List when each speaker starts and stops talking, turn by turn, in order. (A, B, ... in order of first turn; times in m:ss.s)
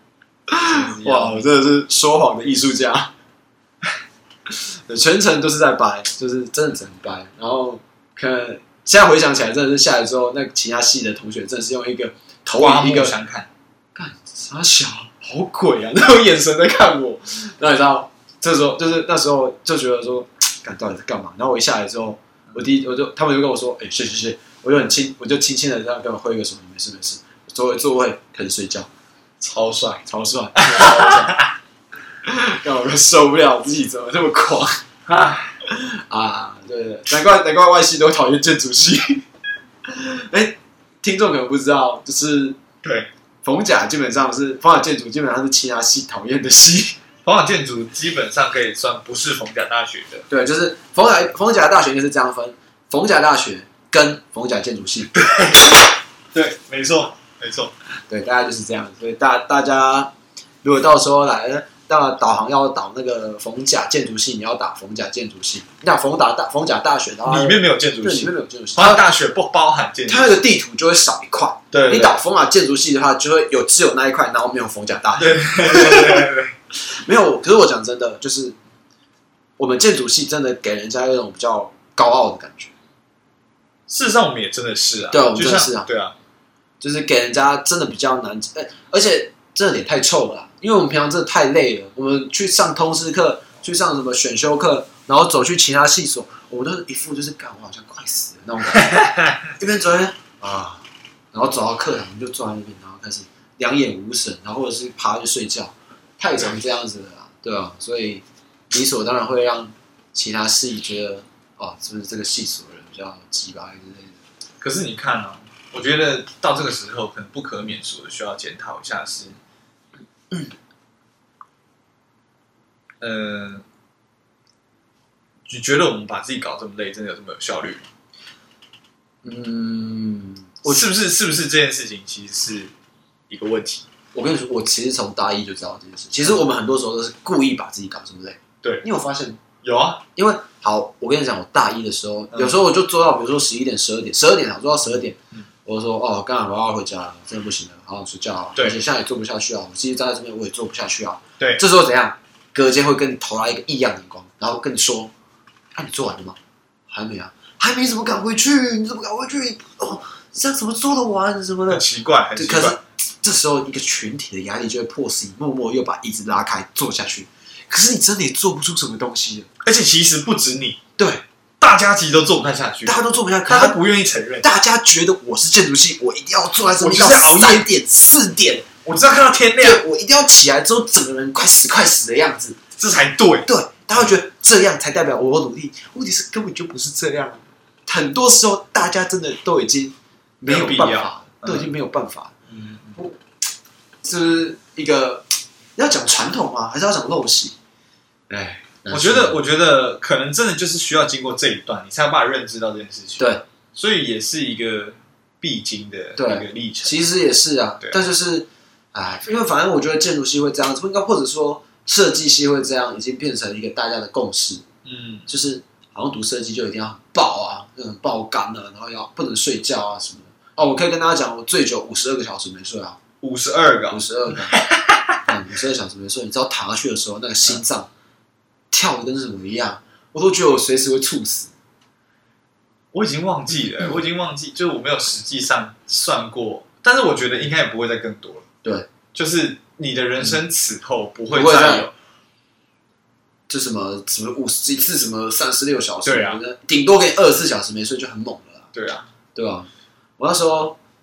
0:00.5-0:03.1 A
0:00.7-0:01.4 B
0:04.9-0:13.2 A
0:12.5-0:13.5 B
0:13.9-0:28.9 A
0:29.4-0:30.0 B
0:30.1-0:31.4 A
0:30.6-0:31.5 B
0:32.2-0:34.8 A
0:35.1-0:35.6 B
0:35.7-0:39.2 A
0:39.9-0:42.6 A
0:42.8-0:43.1 B
0:43.4-0:47.0 A
0:47.2-0:50.2 B
0:50.3-0:55.2 A
0:55.2-0:55.8 B
0:56.3-0:57.7 B
0:58.1-1:00.1 A
1:00.6-1:09.0 A
1:07.2-1:10.4 B
1:10.1-1:16.3 A
1:11.7-1:12.2 B
1:15.2-1:16.5 B
1:16.8-1:18.6 A
1:19.6-1:22.7 A
1:23.9-1:26.1 B
1:25.1-1:25.9 A
1:26.8-1:54.2 A
1:38.7-1:39.4 B
1:54.6-1:59.4 B
2:03.0-2:03.6 B
2:05.4-2:07.8 B
2:09.2-2:10.9 A
2:10.6-2:12.7 B
2:13.3-2:13.8 B
2:14.1-2:19.4 A
2:19.6-2:20.0 B
2:20.2-2:35.1 A
2:22.3-2:22.6 B
2:35.7-2:36.4 A
2:36.9-2:41.8 A
2:41.7-2:42.8 B
2:42.4-2:49.5 A
2:49.6-2:50.8 B
2:51.0-2:51.2 A
2:51.6-2:54.5 B
2:52.8-2:53.8 A
2:54.4-2:58.7 A
2:56.8-2:57.7 B
2:58.8-2:59.8 B
2:59.6-3:02.6 A
3:02.8-3:04.0 B
3:03.4-3:12.3 A
3:10.4-3:11.7 B
3:12.5-3:13.0 B
3:14.0-3:15.2 A
3:15.8-3:17.6 A
3:18.3-3:19.4 A
3:18.9-3:26.9 B
3:23.2-3:23.4 A
3:26.2-3:34.6 A
3:34.8-3:35.3 B
3:35.3-3:43.0 A
3:43.2-3:45.2 B
3:43.9-3:44.6 A
3:45.2-3:47.9 A
3:48.7-3:51.5 A
3:52.9-3:58.4 B
3:59.1-4:01.9 B
4:01.3-4:01.9 A
4:03.5-4:08.7 A
4:06.0-4:06.4 B
4:08.7-4:09.1 B
4:09.3-4:10.8 A